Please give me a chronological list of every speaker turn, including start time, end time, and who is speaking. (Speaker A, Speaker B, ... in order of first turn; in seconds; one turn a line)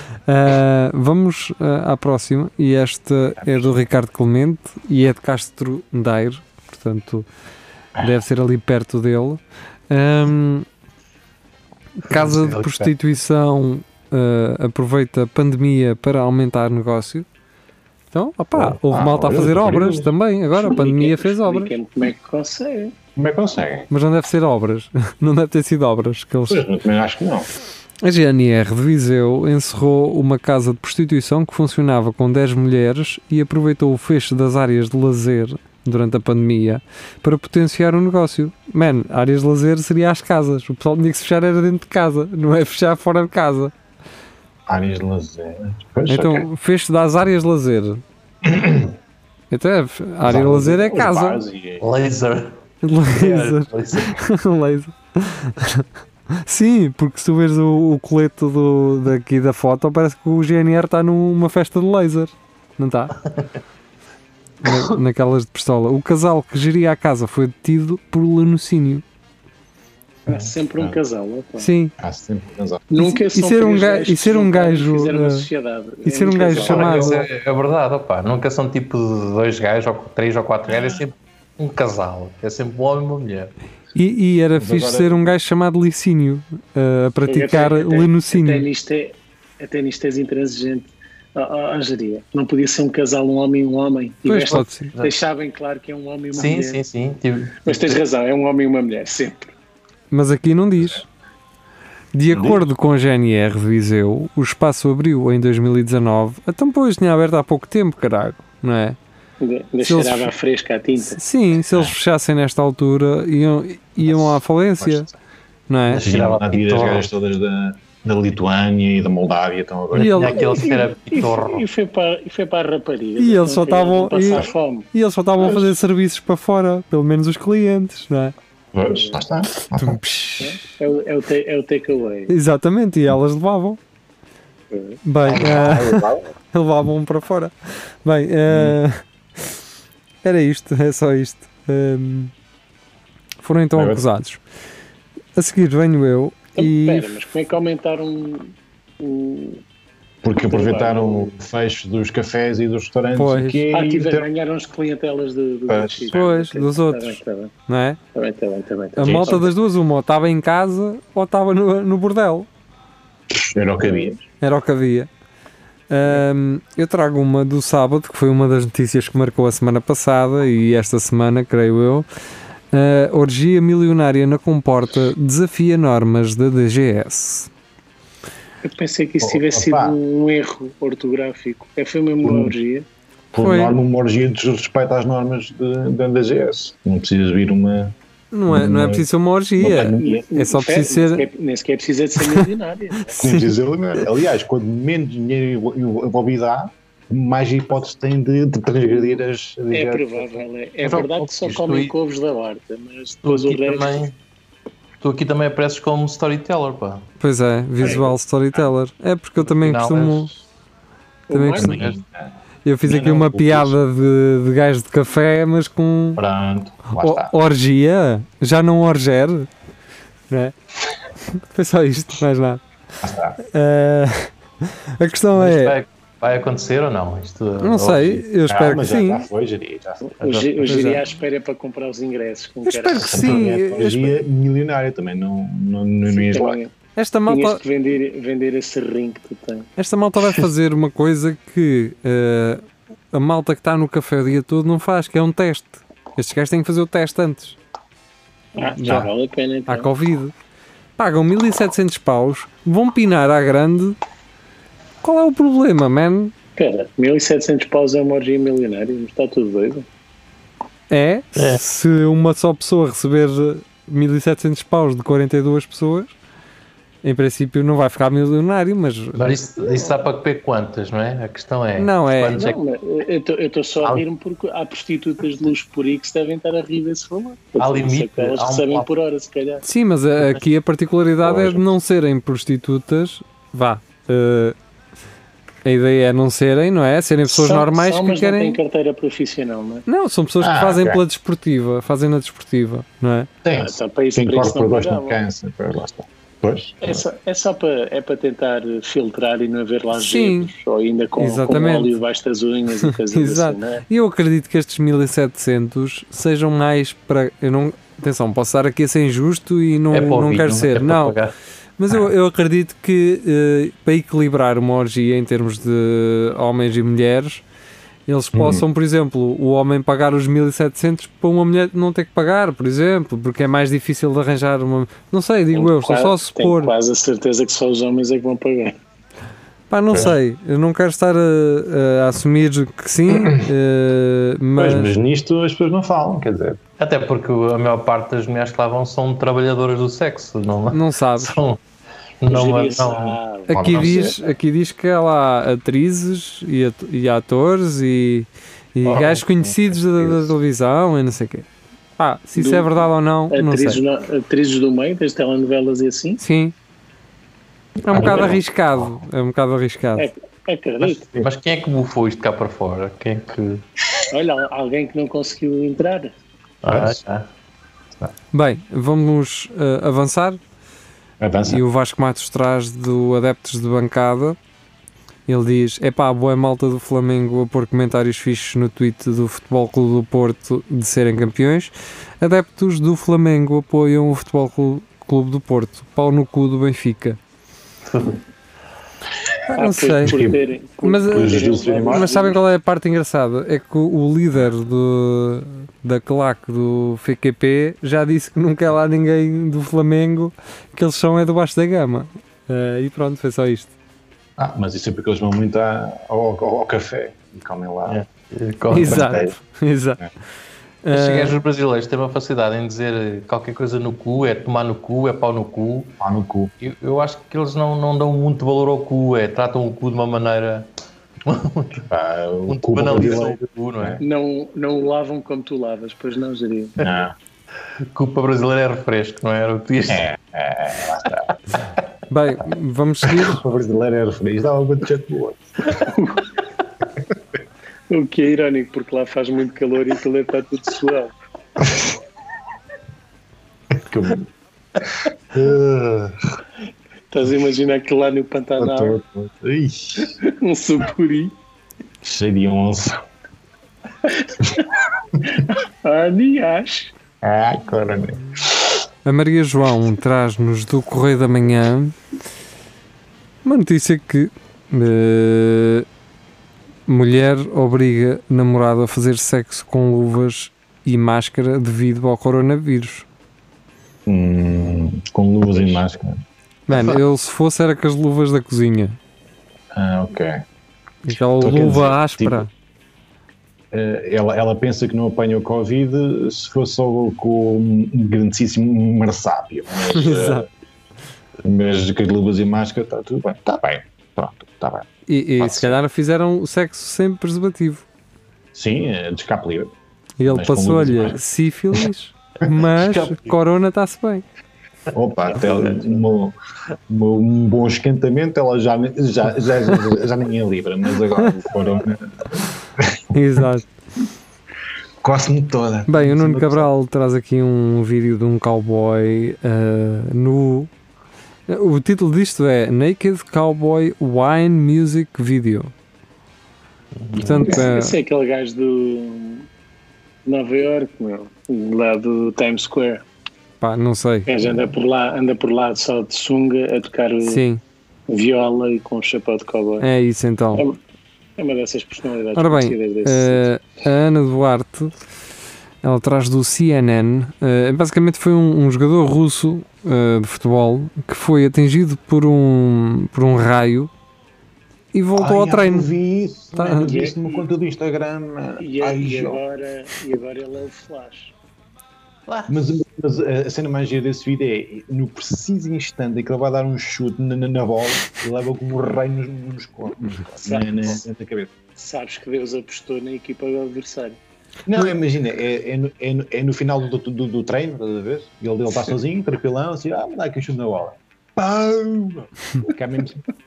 Speaker A: 0.2-7.2
Speaker B: 3.4-3.8
Speaker A: 8.0-10.7
Speaker A: 12.0-17.2
Speaker C: 12.2-12.8
Speaker A: 18.1-21.7
Speaker B: 18.5-20.1
Speaker D: 20.6-22.9
Speaker B: 23.1-23.9
Speaker A: 23.9-26.6
Speaker B: 26.5-27.5
Speaker A: 28.0-43.7
Speaker B: 44.7-46.5
Speaker A: 46.1-48.0
Speaker B: 48.4-48.9
Speaker A: 49.5-51.4
Speaker B: 50.2-51.8
Speaker C: 51.8-52.5
Speaker A: 52.8-63.1
Speaker C: 53.1-54.2
Speaker A: 64.6-69.0
Speaker C: 64.6-65.0
Speaker D: 70.3-71.7
Speaker A: 71.6-71.9
Speaker B: 72.0-72.8
Speaker D: 72.9-76.9
Speaker A: 73.0-75.5
Speaker A: 76.0-77.2
Speaker C: 76.6-83.5
Speaker B: 76.7-77.2
Speaker B: 80.7-81.0
Speaker A: 83.9-88.7
Speaker B: 84.6-85.2
Speaker D: 87.3-96.8
Speaker A: 94.2-94.9
Speaker C: 94.5-95.1
Speaker C: 96.3-98.0
Speaker D: 97.6-99.5
Speaker A: 100.1-101.0
Speaker A: 102.1-109.0
Speaker D: 109.4-111.2
Speaker A: 109.8-110.3
Speaker A: 111.0-115.1
Speaker B: 114.0-115.1
Speaker A: 115.7-116.0
Speaker B: 115.9-120.5
Speaker C: 115.9-117.1
Speaker A: 119.9-120.4
Speaker C: 119.9-121.6
Speaker D: 120.3-124.9
Speaker A: 123.2-128.3
Speaker D: 125.4-125.7
Speaker B: 128.7-130.0
Speaker D: 128.8-129.2
Speaker A: 129.7-130.6
Speaker D: 130.4-132.3
Speaker A: 132.3-133.8
Speaker D: 134.7-135.0
Speaker A: 135.0-137.5
Speaker B: 135.2-136.3
Speaker A: 138.0-139.0
Speaker B: 138.5-138.8
Speaker A: 140.2-142.3
Speaker A: 143.4-144.4
Speaker B: 143.8-144.0
Speaker A: 145.3-147.1
Speaker D: 146.6-149.6
Speaker B: 150.2-154.3
Speaker D: 150.3-151.3
Speaker A: 153.1-153.6
Speaker D: 153.7-157.5
Speaker B: 155.7-156.2
Speaker A: 156.1-158.0
Speaker D: 158.1-159.5
Speaker A: 158.9-162.5
Speaker B: 159.0-159.5
Speaker B: 163.3-164.2
Speaker A: 164.4-165.1
Speaker A: 165.9-172.1
Speaker A: 172.7-177.5
Speaker D: 178.6-182.8
Speaker B: 179.2-180.0
Speaker B: 182.2-182.5
Speaker B: 183.3-187.9
Speaker A: 183.4-183.8
Speaker A: 188.3-191.3
Speaker B: 188.5-190.3
Speaker D: 189.6-193.2
Speaker A: 192.2-192.5
Speaker A: 193.1-193.5
Speaker B: 193.2-200.2
Speaker D: 198.9-199.2
Speaker D: 199.7-204.0
Speaker C: 200.8-201.9
Speaker C: 203.2-204.1
Speaker C: 205.0-207.1
Speaker A: 207.2-210.3
Speaker B: 207.8-208.7
Speaker C: 209.4-210.3
Speaker D: 211.3-211.8
Speaker A: 211.3-211.9
Speaker B: 211.6-212.3
Speaker C: 211.7-212.0
Speaker A: 212.6-216.2
Speaker B: 212.8-213.8
Speaker B: 216.2-217.3
Speaker A: 216.9-219.5
Speaker A: 221.3-222.6
Speaker B: 223.0-223.4
Speaker A: 223.4-224.3
Speaker A: 225.0-225.8
Speaker C: 225.3-228.2
Speaker A: 227.6-229.2
Speaker B: 228.5-230.1
Speaker D: 230.0-233.4
Speaker C: 230.2-231.1
Speaker A: 230.7-231.0
Speaker A: 232.7-234.2
Speaker B: 232.9-236.6
Speaker D: 236.1-236.7
Speaker A: 236.9-237.6
Speaker D: 237.3-239.7
Speaker A: 239.8-247.6
Speaker D: 248.5-249.9
Speaker A: 248.6-249.1
Speaker B: 248.8-249.1
Speaker A: 249.7-250.3
Speaker A: 251.0-254.0
Speaker A: 255.0-256.3
Speaker D: 256.6-259.9
Speaker A: 260.9-266.1
Speaker C: 261.4-261.6
Speaker A: 267.0-269.3
Speaker C: 269.2-272.6
Speaker A: 271.8-272.4
Speaker D: 272.3-279.6
Speaker C: 277.6-278.9
Speaker A: 279.6-284.6
Speaker B: 281.2-281.6
Speaker A: 285.6-288.6
Speaker D: 287.3-289.8
Speaker A: 289.9-293.3
Speaker B: 290.4-291.0
Speaker B: 293.4-297.0
Speaker D: 293.5-295.2
Speaker D: 296.8-303.8
Speaker A: 299.9-300.5
Speaker A: 301.1-301.9
Speaker A: 302.8-311.1
Speaker C: 309.9-311.3
Speaker A: 311.8-317.4
Speaker A: 318.1-326.7
Speaker B: 318.3-318.6
Speaker D: 325.5-328.8
Speaker A: 329.7-334.9
Speaker B: 334.6-336.6
Speaker C: 336.8-341.6
Speaker A: 340.7-341.4
Speaker C: 342.2-343.1
Speaker D: 342.3-344.0
Speaker B: 342.9-344.1
Speaker A: 343.5-351.5
Speaker C: 348.8-349.3
Speaker B: 349.7-350.3
Speaker A: 352.0-353.8
Speaker D: 352.3-356.2
Speaker A: 356.2-356.5
Speaker A: 357.9-360.1
Speaker B: 357.9-358.4
Speaker C: 357.9-358.4
Speaker D: 360.0-361.0
Speaker C: 360.8-363.6
Speaker D: 364.1-366.1
Speaker C: 366.6-367.2
Speaker B: 366.6-367.0
Speaker A: 368.3-370.4
Speaker B: 371.2-371.6
Speaker A: 371.4-374.4
Speaker A: 375.3-387.2
Speaker C: 387.9-388.2
Speaker A: 389.5-403.7
Speaker D: 389.5-392.4
Speaker B: 390.0-390.4
Speaker B: 391.1-392.1
Speaker B: 404.4-408.0
Speaker C: 407.9-409.2
Speaker B: 408.7-409.4
Speaker A: 408.7-410.0
Speaker A: 410.8-411.3
Speaker C: 410.9-415.9
Speaker B: 416.0-416.5
Speaker C: 416.6-420.7
Speaker C: 421.2-421.9
Speaker B: 421.9-424.0
Speaker C: 422.5-424.0
Speaker D: 424.0-426.8
Speaker B: 426.8-427.1
Speaker C: 427.9-430.1
Speaker B: 429.9-431.3
Speaker A: 432.1-433.4
Speaker B: 433.0-435.4
Speaker D: 435.8-436.2
Speaker D: 437.9-441.1
Speaker B: 441.6-441.9
Speaker B: 443.7-444.3
Speaker B: 445.3-446.4
Speaker D: 447.1-448.9
Speaker B: 448.6-450.1
Speaker D: 450.0-451.4
Speaker B: 452.0-453.0
Speaker D: 454.1-454.6
Speaker D: 455.3-456.9
Speaker B: 457.2-458.8
Speaker A: 459.0-461.9
Speaker A: 463.4-465.9
Speaker A: 466.9-473.1
Speaker B: 474.1-476.2
Speaker A: 476.7-479.0
Speaker B: 479.7-480.4
Speaker A: 481.0-482.5
Speaker B: 481.4-482.5
Speaker B: 483.7-490.5
Speaker A: 489.9-490.4
Speaker B: 491.4-494.9
Speaker A: 495.1-497.9
Speaker B: 495.4-495.8
Speaker B: 498.5-499.7
Speaker A: 500.2-504.2
Speaker B: 500.2-501.2
Speaker C: 502.8-503.3
Speaker B: 504.9-506.4
Speaker C: 505.3-505.8
Speaker B: 506.9-513.4
Speaker A: 513.1-513.6
Speaker B: 515.0-516.7
Speaker A: 515.9-520.7
Speaker A: 521.5-525.7
Speaker C: 527.0-527.4
Speaker A: 527.1-527.9
Speaker D: 527.4-529.5
Speaker B: 527.4-527.7
Speaker D: 530.2-533.0
Speaker A: 533.6-534.3
Speaker D: 534.3-537.4
Speaker A: 537.2-537.6
Speaker D: 538.1-539.9
Speaker A: 539.8-540.6
Speaker D: 541.4-543.4
Speaker A: 542.4-544.9
Speaker A: 545.8-553.9
Speaker A: 554.9-555.9
Speaker B: 555.1-559.4
Speaker A: 556.6-556.8
Speaker D: 556.8-557.5
Speaker D: 558.6-561.3
Speaker C: 562.3-562.7
Speaker B: 562.5-571.5
Speaker D: 570.4-571.0
Speaker D: 571.8-574.2
Speaker B: 574.7-583.2